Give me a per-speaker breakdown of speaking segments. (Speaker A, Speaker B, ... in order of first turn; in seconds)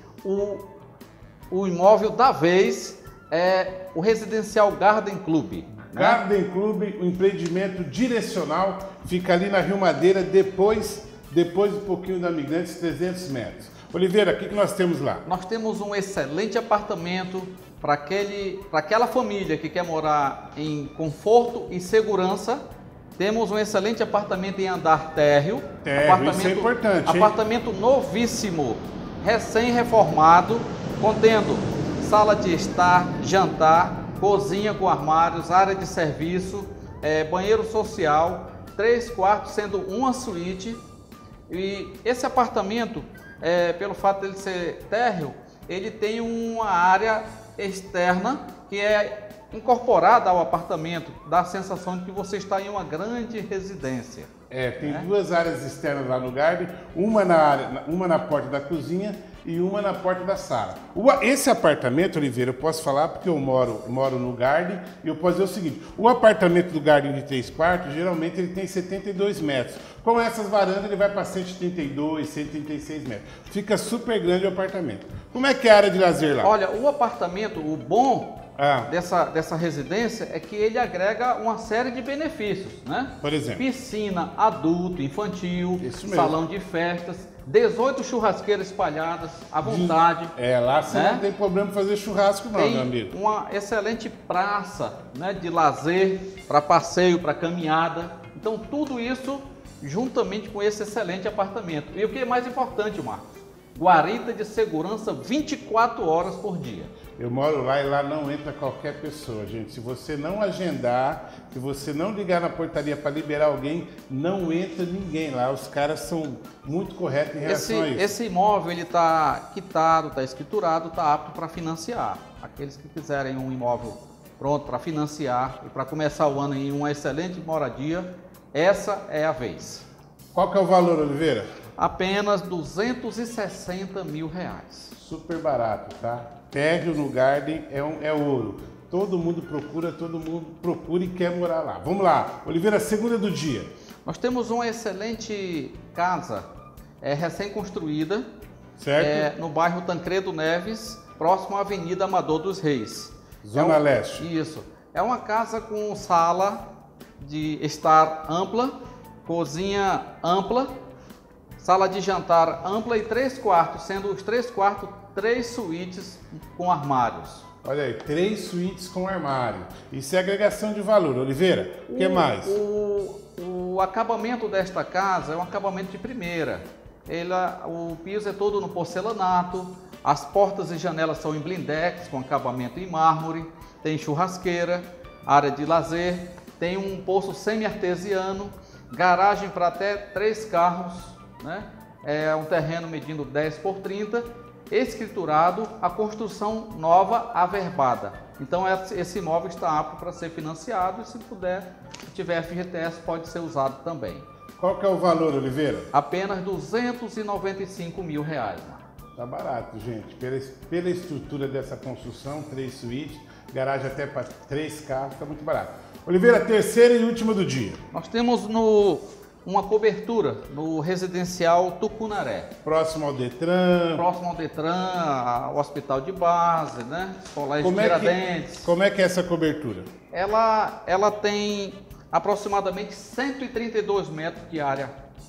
Speaker A: 0.2-0.6, 1.5-6.2, 15.2-22.6, 23.2-40.8, 41.5-54.3, 54.8-55.1, 76.4-90.3, 90.9-91.2, 92.5-106.9, 117.4-129.8, 131.8-134.9, 144.1-146.4, 147.0-148.2, 149.0-156.6, 157.2-160.7, 161.6-167.4, 171.9-204.2, 205.9-208.8, 217.9-222.5, 223.9-228.7, 230.1-234.9
Speaker B: 5.9-15.2, 25.8-27.4, 54.5-76.5, 78.6-78.9, 83.2-83.6, 85.8-86.4, 89.6-93.1, 107.2-118.2, 130.3-131.5, 135.0-143.7, 148.8-149.3, 153.4-154.3, 167.6-172.6, 204.6-205.9, 209.2-217.8, 222.6-224.0, 227.6-229.9